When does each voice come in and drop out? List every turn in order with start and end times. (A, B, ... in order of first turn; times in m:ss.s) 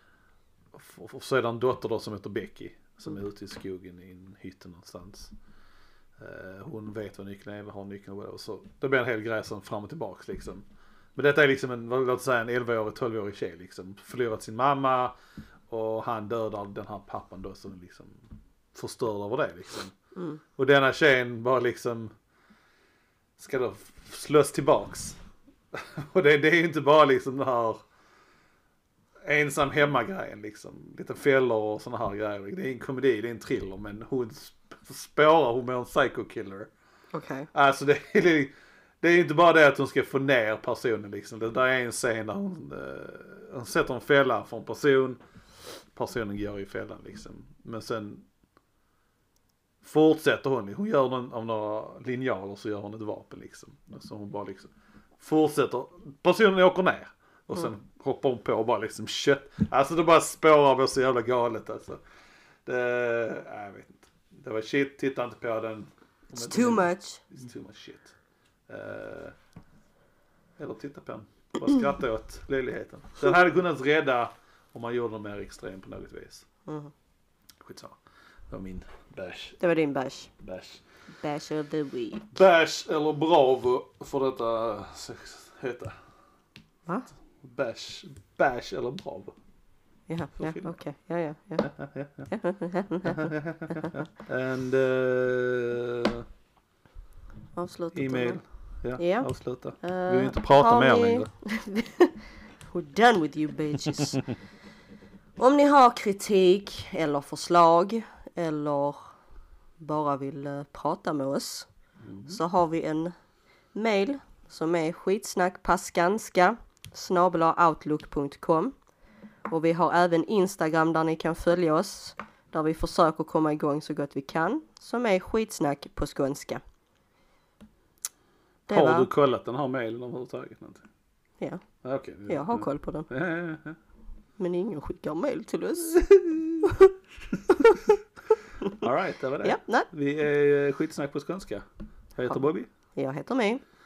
0:00.7-0:05.3 A
0:06.2-0:15.1 A
0:15.7-0:20.0 A
0:20.2-0:20.4 B
0:20.6-0:22.1 A
0:23.4-0:25.2 A
0:25.7-0:27.8 A
0:29.2-0:36.7 A
0:37.1-0:37.5 B
0:37.5-0:45.2 A
0:45.9-0:48.3 A
0:49.8-1:02.0 A
1:02.7-1:08.1 A
1:06.4-1:07.2 B
1:08.7-1:09.4 A
1:10.6-1:16.5 A
1:16.7-1:16.9 B
1:17.6-1:19.6 A
1:19.6-1:20.3 B
1:20.4-1:20.8 A
1:21.2-1:22.4 B
1:22.3-1:26.0 A
1:26.9-1:27.1 B
1:27.4-1:29.3 A
1:30.1-1:31.7 B
1:30.4-1:30.8 A
1:31.6-1:32.3 A
1:32.3-1:33.9 B
1:33.1-1:36.2 A
1:37.6-1:38.4 B
1:37.9-1:41.3 A
1:39.0-1:44.2 B
1:45.4-1:49.2 B
1:49.8-1:51.7 B
1:52.0-1:52.4 A
1:52.3-1:53.2 B
1:53.7-1:58.8 B
1:59.4-2:06.6 B
2:08.7-2:09.1 B
2:08.7-2:10.8 A
2:11.4-2:11.6 B
2:11.8-2:13.8 A
2:12.3-2:13.1 B
2:14.4-2:16.1 B
2:15.9-2:16.7 A
2:16.6-2:16.9 B
2:18.8-2:22.7 A
2:19.4-2:19.9 B
2:23.0-2:23.6 B